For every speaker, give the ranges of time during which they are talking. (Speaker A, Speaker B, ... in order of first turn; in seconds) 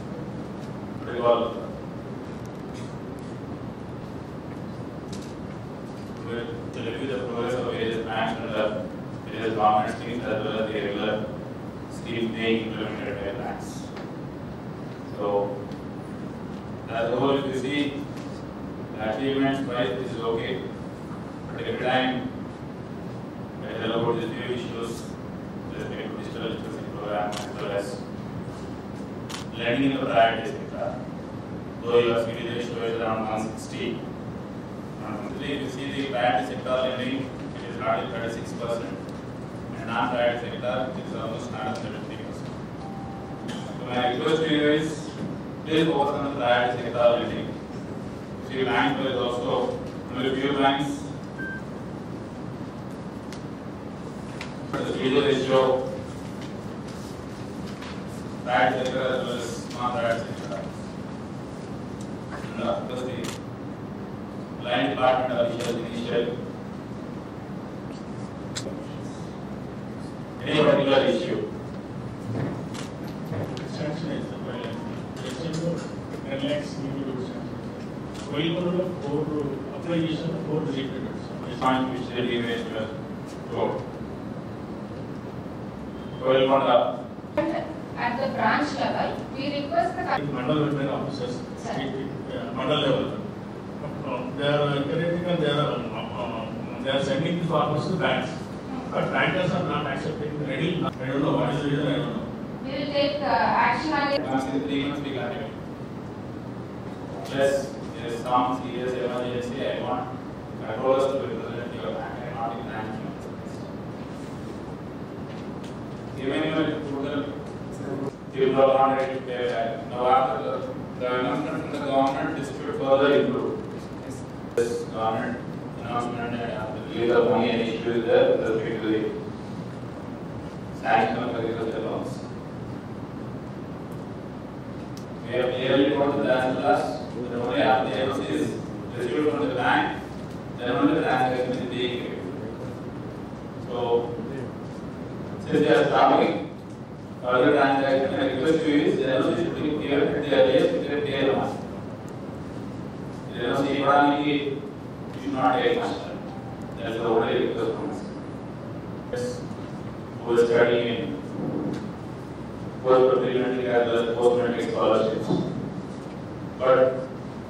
Speaker A: 1.0-1.7, 6.2-11.2, 11.9-13.9, 15.1-15.5, 16.9-17.9, 18.9-20.6, 21.4-22.2, 23.6-25.1, 25.7-28.0, 29.5-30.9, 31.8-34.0, 35.0-39.0, 39.7-42.5, 43.7-47.5, 48.4-51.1, 54.7-55.8, 58.4-60.6, 62.4-63.3, 64.6-66.3, 70.4-71.5, 81.5-82.9, 83.5-83.8, 86.2-86.9, 104.2-105.6, 107.2-113.7, 116.1-117.3, 118.3-123.6, 124.5-129.1, 130.8-132.2, 135.2-140.0, 140.6-142.3, 143.6-144.1, 145.4-146.4, 147.2-151.6, 153.3-154.5, 155.1-156.2, 156.8-158.1, 159.1-159.4, 160.2-161.2, 162.8-165.4, 166.6-166.9
Speaker B: 73.5-81.6, 90.2-93.2, 93.8-102.3
Speaker C: 87.4-90.2, 102.6-104.2